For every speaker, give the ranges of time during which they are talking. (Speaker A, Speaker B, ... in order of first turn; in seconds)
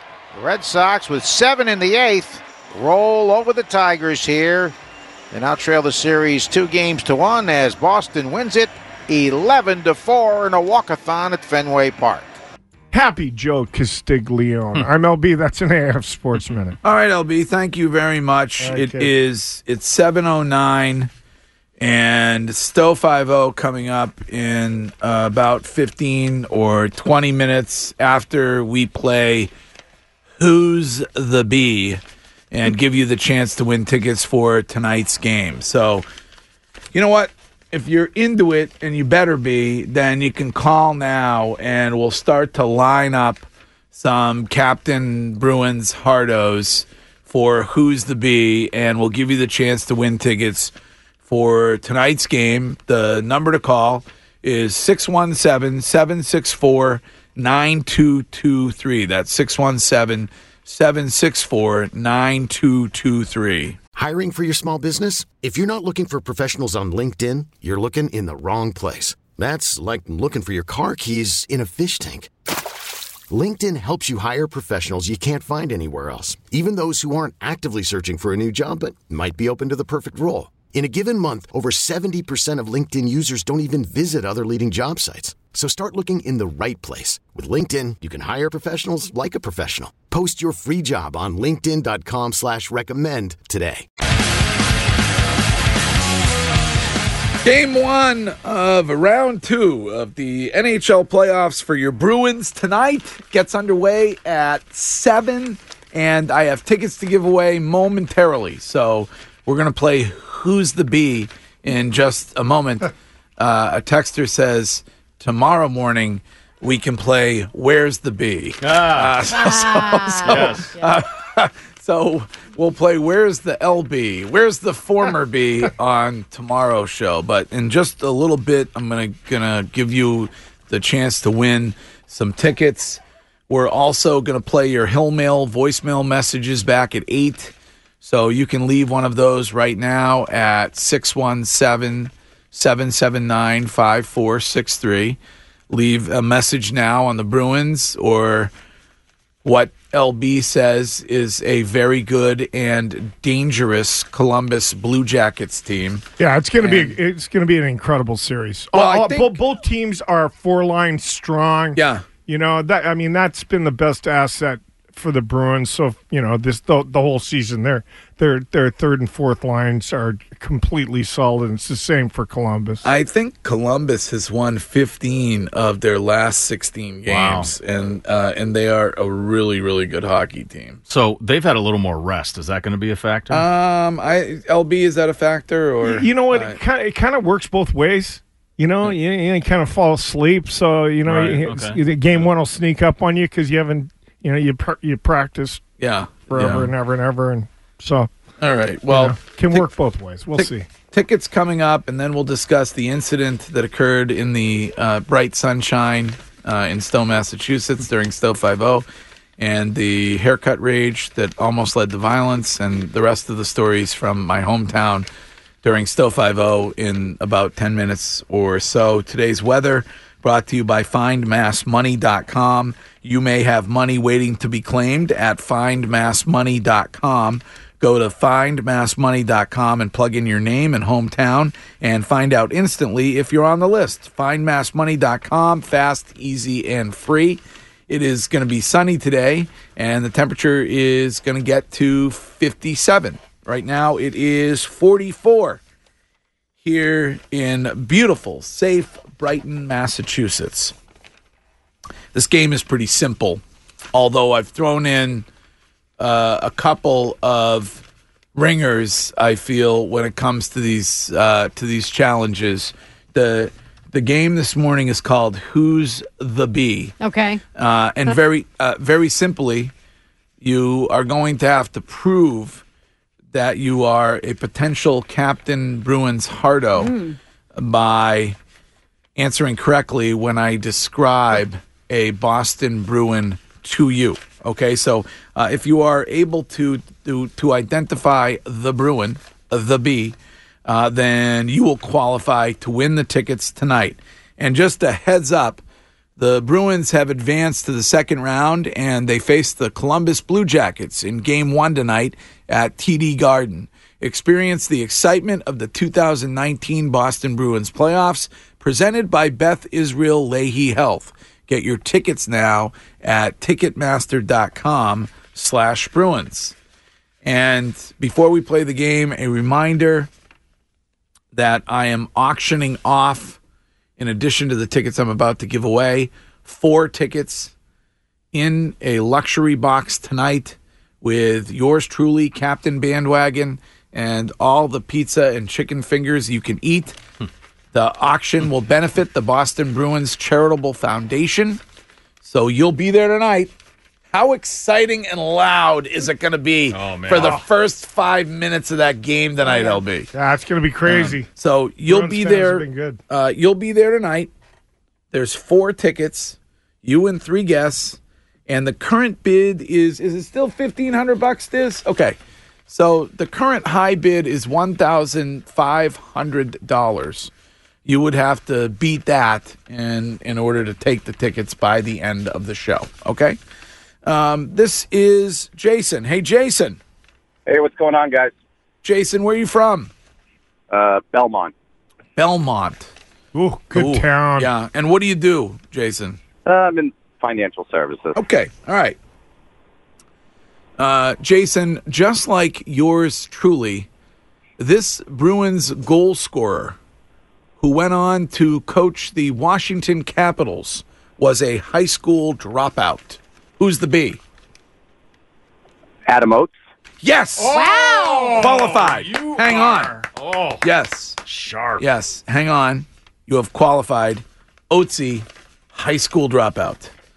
Speaker A: 0.3-4.7, 5.3-12.3
Speaker B: 12.9-16.8, 18.6-19.1, 156.2-172.8, 185.8-195.6, 196.3-198.1, 198.9-200.7, 347.2-347.4, 350.1-351.3, 351.9-353.0, 383.3-384.5
Speaker C: 16.8-21.1, 21.8-29.5, 30.4-36.1, 36.9-50.7, 51.2-63.8, 97.4-145.2, 145.7-148.5, 149.4-156.0, 156.6-156.9, 158.7-159.4, 161.8-162.0, 172.8-180.8, 183.3-186.6, 195.8-196.7, 198.4-199.7, 200.3-208.9, 209.4-215.1, 215.6-245.6, 246.6-250.7, 252.1-253.4, 253.9-255.3, 256.0-257.8, 258.4-266.9, 267.6-269.7, 270.4-272.6, 273.3-276.9, 277.6-278.4, 279.2-295.6, 296.2-316.6, 317.2-320.1, 321.3-323.4, 324.0-327.5, 328.3-337.0, 337.7-341.6, 342.2-343.5, 344.1-350.1, 350.9-354.3, 355.1-362.2, 362.7-367.3, 367.9-373.4, 374.0-376.8, 378.8-379.9, 382.2-382.9, 383.7-386.2, 388.1-389.0, 390.8-393.9, 394.6-396.8, 397.6-404.2, 407.0-407.7, 408.4-410.0, 410.6-411.2, 411.8-416.9
Speaker D: 64.0-72.3, 73.3-93.9
Speaker E: 118.6-119.2, 120.2-120.7, 177.1-177.5, 180.9-183.4, 191.1-192.3, 346.7-347.4, 407.4-410.6, 411.2-411.8
Speaker F: 119.3-120.9, 267.0-267.4, 276.8-277.2, 349.4-349.8, 407.5-408.5
Speaker G: 377.5-378.3, 380.7-381.5, 386.5-388.2, 406.1-406.6